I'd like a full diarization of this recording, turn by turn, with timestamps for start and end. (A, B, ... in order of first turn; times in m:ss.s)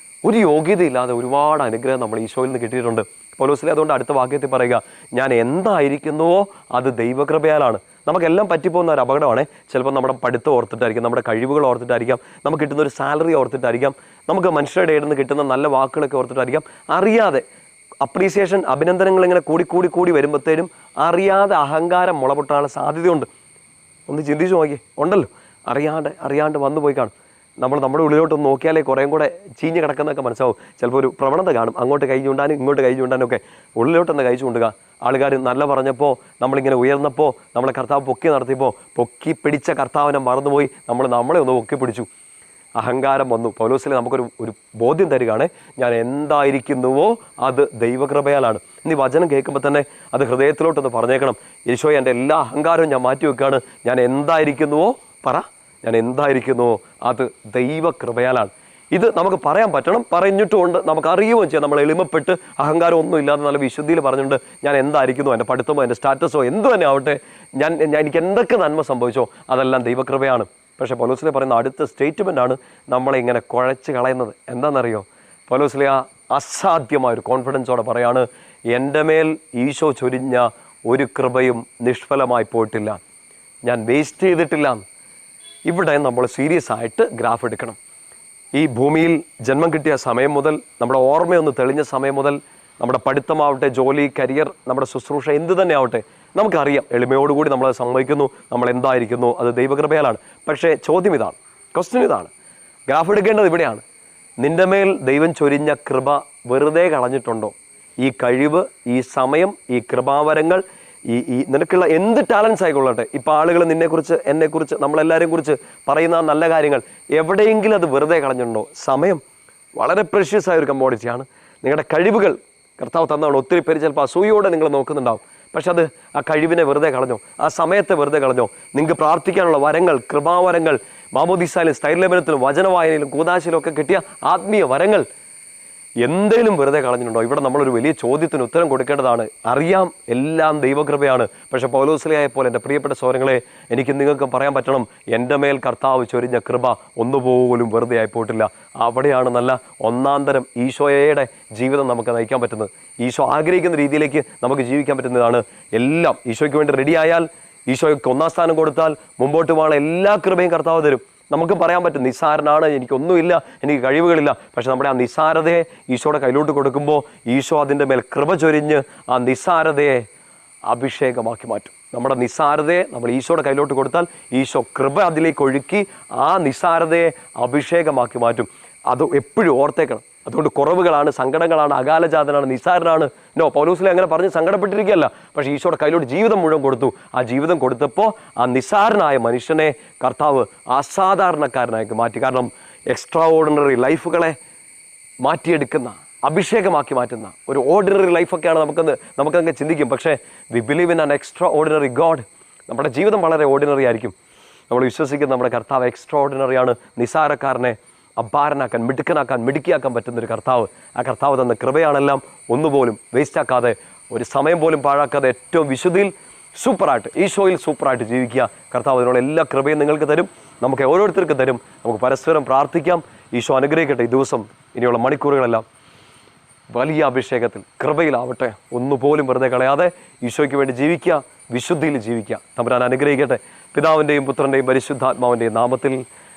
0:00.2-0:17.4 A
0:18.0-0:23.3 A
0:24.1-0:42.1 A
0:42.8-1:23.0 A
1:23.6-1:24.8 A
1:25.7-1:27.8 A
1:28.5-1:42.3 A
1:42.9-1:43.8 A
1:44.4-1:59.2 A
1:59.8-2:15.0 A
2:16.0-2:50.0 A
2:50.7-3:14.4 A
3:15.2-3:24.1 A
3:24.7-3:45.6 A
3:46.7-3:56.0 A